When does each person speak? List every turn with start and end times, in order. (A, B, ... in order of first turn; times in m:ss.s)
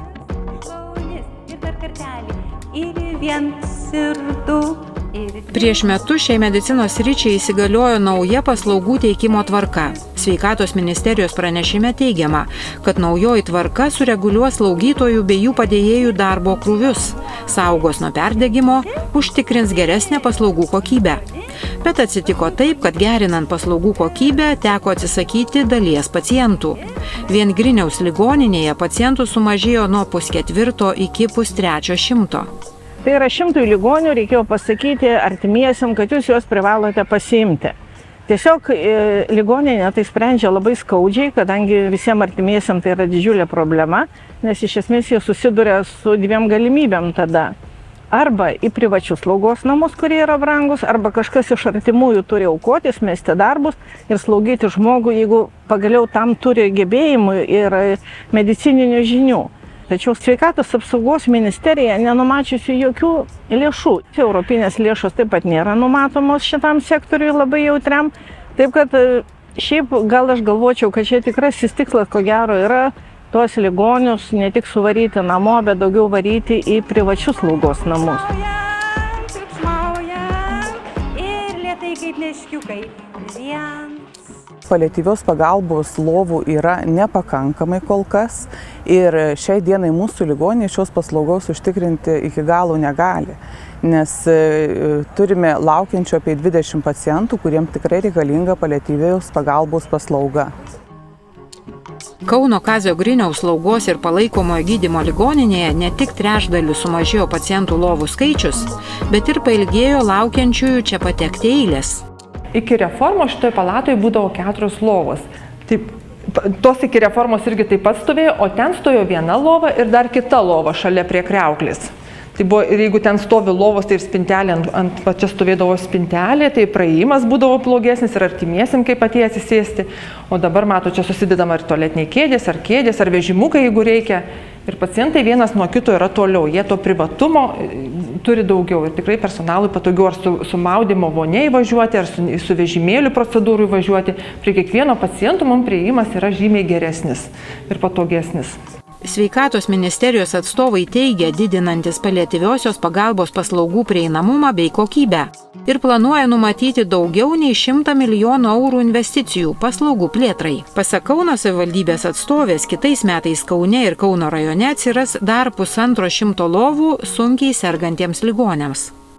0:00.7-0:05.8 A
0:05.5-0:21.2 B
0:21.8-0:32.5 B
0:33.0-0:37.7 C
0:38.3-0:47.5 C
0:48.1-1:18.3 C
1:18.4-1:24.0 A
1:24.7-1:40.5 D
1:42.2-1:52.0 B
1:52.5-2:28.6 E
2:29.0-2:48.9 B